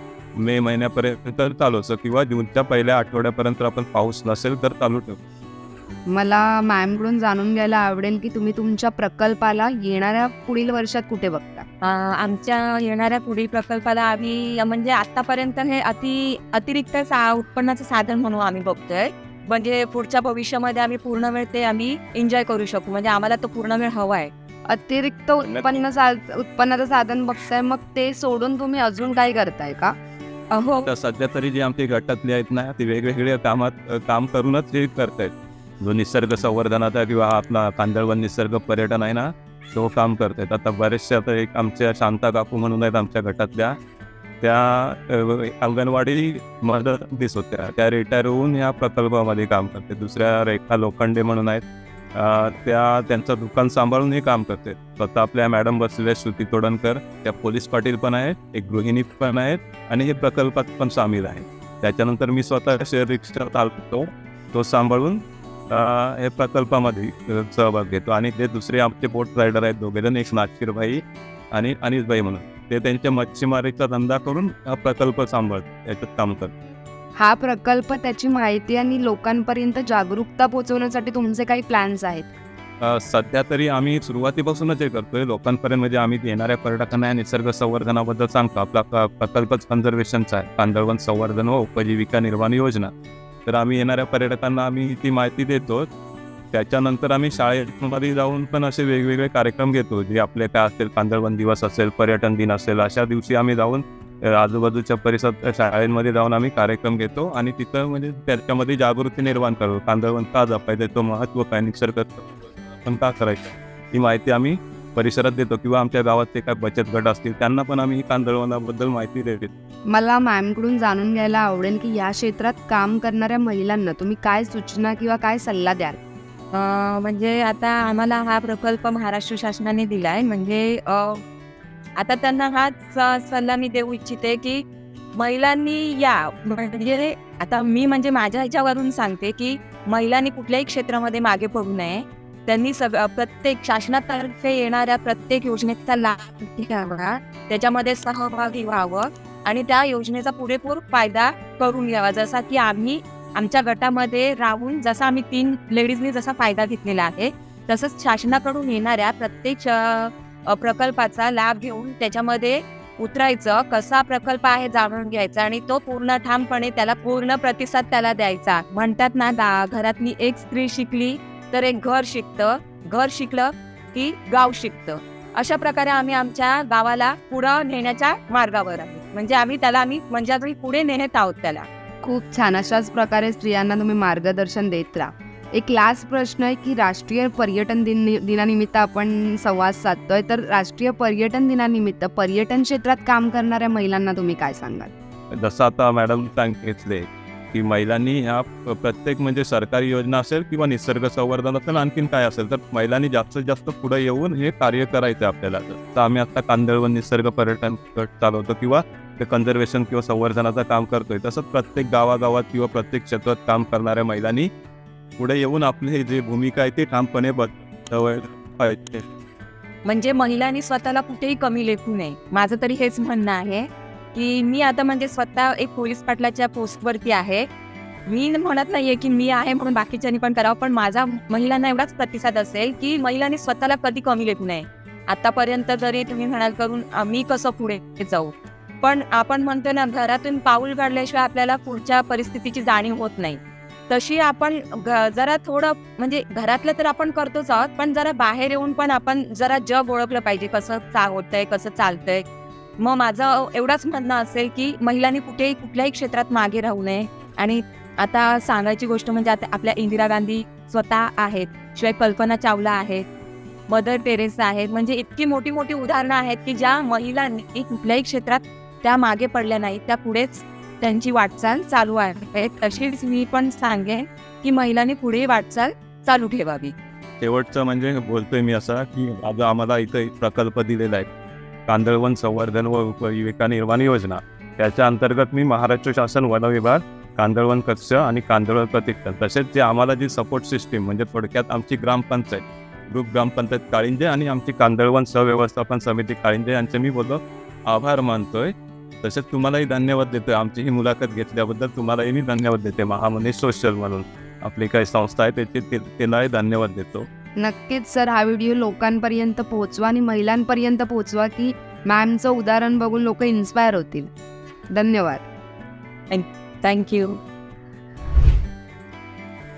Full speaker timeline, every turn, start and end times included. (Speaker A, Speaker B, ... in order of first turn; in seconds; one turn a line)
Speaker A: 0.4-5.2
Speaker B: 6.1-11.7
Speaker C: 11.8-24.3
Speaker B: 24.7-29.9
Speaker A: 25.4-25.8
Speaker C: 30.5-30.9
Speaker A: 30.9-43.8
Speaker A: 44.4-76.5
Speaker B: 77.2-82.3
Speaker A: 82.8-92.9
Speaker A: 93.5-95.9
Speaker A: 96.5-119.5
Speaker B: 119.9-126.0
Speaker C: 126.5-131.2
Speaker C: 132.0-134.6
Speaker C: 135.2-181.7
Speaker B: 182.0-194.9
Speaker A: 195.3-214.5
Speaker A: 215.2-219.1
Speaker C: 219.9-227.5
Speaker C: 228.1-252.2
Speaker C: 252.8-263.1
Speaker C: 263.7-276.7
Speaker A: 277.2-281.1
Speaker A: 281.7-298.5
Speaker A: 299.0-307.1
Speaker B: 307.4-314.1
Speaker B: 314.8-315.3
Speaker C: 316.1-317.2